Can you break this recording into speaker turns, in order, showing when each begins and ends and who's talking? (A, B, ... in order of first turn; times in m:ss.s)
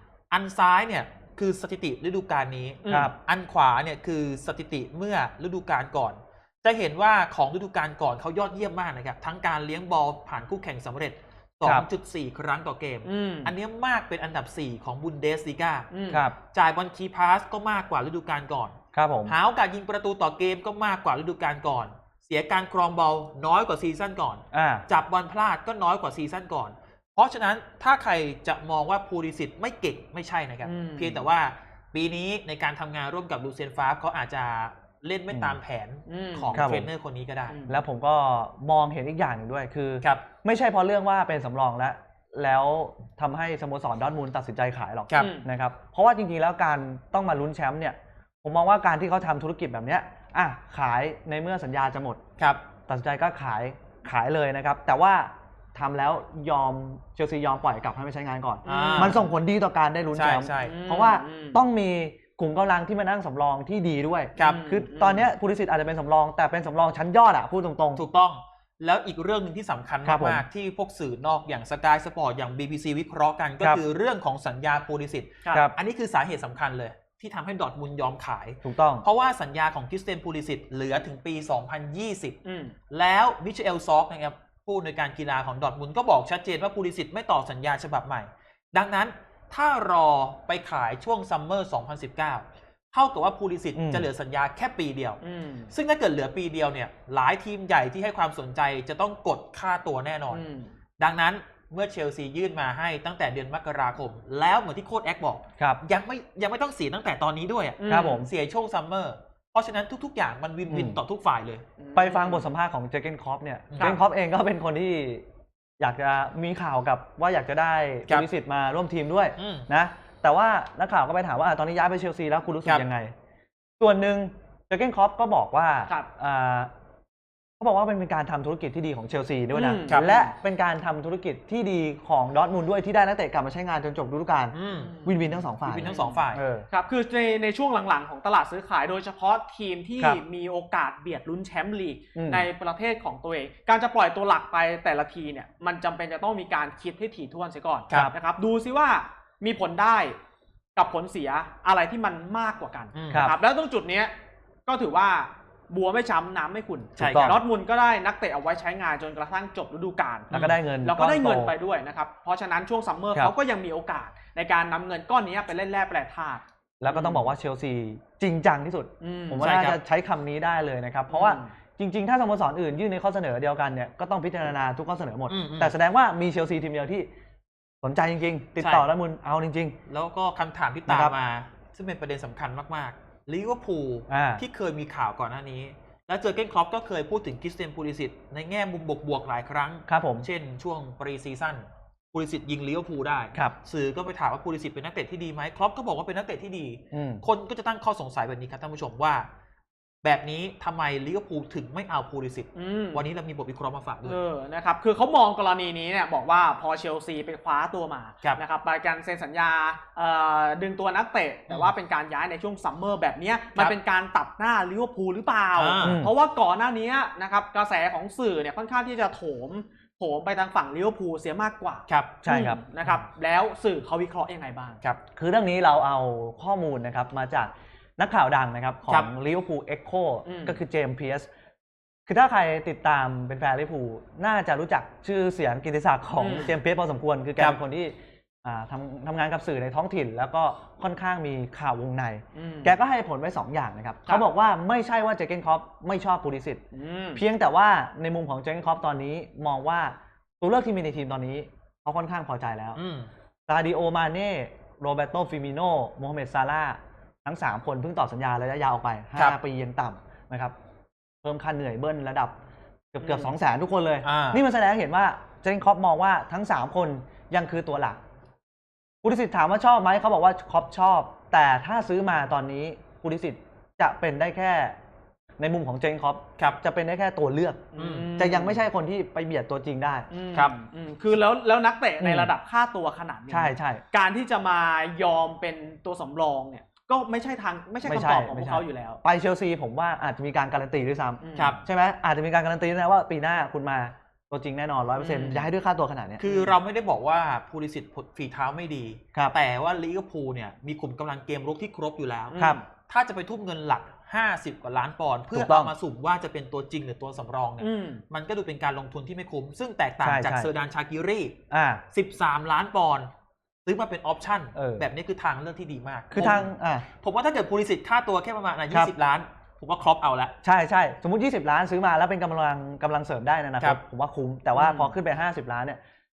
0:00.3-0:15.9 A
0:02.8-0:03.1 B
0:02.9-0:03.1 C
0:13.0-0:13.5 B
0:15.9-0:16.2 B
0:16.1-0:16.4 C
0:16.5-0:37.6 A
0:18.9-0:19.3 C
0:24.5-0:24.8 C
0:30.6-0:31.2 B
0:36.1-0:36.6 B
0:36.5-0:36.9 C
0:37.5-0:37.8 B
0:37.7-0:52.2 C
0:45.2-0:45.5 B
0:52.9-1:08.0 C
0:58.6-0:59.2 A
0:58.6-0:59.2 B
1:00.1-1:00.8 A
1:00.6-1:01.6 B
1:04.4-1:04.6 A
1:04.4-1:05.3 B
1:08.0-1:22.4 A
1:10.0-1:10.4 C
1:18.6-1:19.0 C
1:22.4-1:22.7 B
1:22.9-1:40.4 A
1:33.7-1:34.1 C
1:35.2-1:35.7 B
1:40.3-1:40.7 B
1:41.0-1:51.6 A
1:47.8-1:48.2 B
1:47.9-1:48.3 C
1:50.7-1:51.0 C
1:51.8-1:52.4 B
1:51.9-1:55.2 C
1:53.7-1:54.0 A
1:55.8-2:03.1 C
1:59.4-1:59.7 A
2:03.8-2:06.7 C
2:07.6-2:16.7 C
2:09.5-2:10.3 B
2:14.5-2:15.1 A
2:14.7-2:15.2 B
2:15.6-2:16.4 A
2:15.8-2:30.2 B
2:22.1-2:22.4 C
2:30.8-2:34.1 B
2:32.9-2:33.3 A
2:33.1-2:33.4 C
2:34.6-2:47.3 B
2:37.0-2:37.4 A
2:37.0-2:37.4 C
2:40.3-2:41.5 C
2:46.8-2:57.1 C
2:49.0-2:49.5 B
2:49.4-2:49.8 A
2:51.1-2:51.5 B
2:55.3-2:55.7 A
2:57.8-2:59.8 C
2:58.6-2:58.8 A
2:59.9-3:19.3 A
3:00.9-3:01.2 C
3:04.1-3:04.4 C
3:09.9-3:10.3 C
3:16.9-3:17.2 C
3:20.0-3:24.2 A
3:22.6-3:23.0 B
3:24.0-3:44.8 B
3:35.5-3:36.0 A
3:35.8-3:36.1 C
3:41.9-3:42.2 A
3:42.2-3:42.6 C
3:45.1-3:51.3 C
3:50.2-3:50.6 B
3:52.1-4:06.6 C
3:56.2-3:56.5 B
4:02.3-4:02.7 B
4:06.7-4:07.2 B
4:07.1-4:12.8 C
4:12.8-4:13.1 A
4:13.5-4:20.5 C
4:21.2-4:22.4 C
4:22.9-4:28.0 C
4:23.0-4:23.3 B
4:24.0-4:24.4 A
4:29.0-4:34.8 C
4:35.4-4:40.1 C
4:37.7-4:38.6 B
4:37.8-4:38.1 A
4:40.1-4:49.0 B
4:42.0-4:42.3 C
4:43.3-4:43.8 C
4:47.8-4:56.2 C
4:51.2-4:51.6 B
4:51.4-4:51.6 A
4:55.0-4:55.5 B
4:56.2-5:02.4 A
4:56.2-4:56.5 B
5:02.3-5:02.6 B
5:02.9-5:11.4 A
5:05.3-5:05.7 C
5:07.6-5:08.0 B
5:10.0-5:10.5 C
5:11.5-5:11.8 C
5:11.9-5:13.1 A
5:13.6-5:20.3 A
5:14.5-5:14.8 C
5:16.1-5:16.8 C
5:20.4-5:25.8 C
5:24.5-5:24.9 B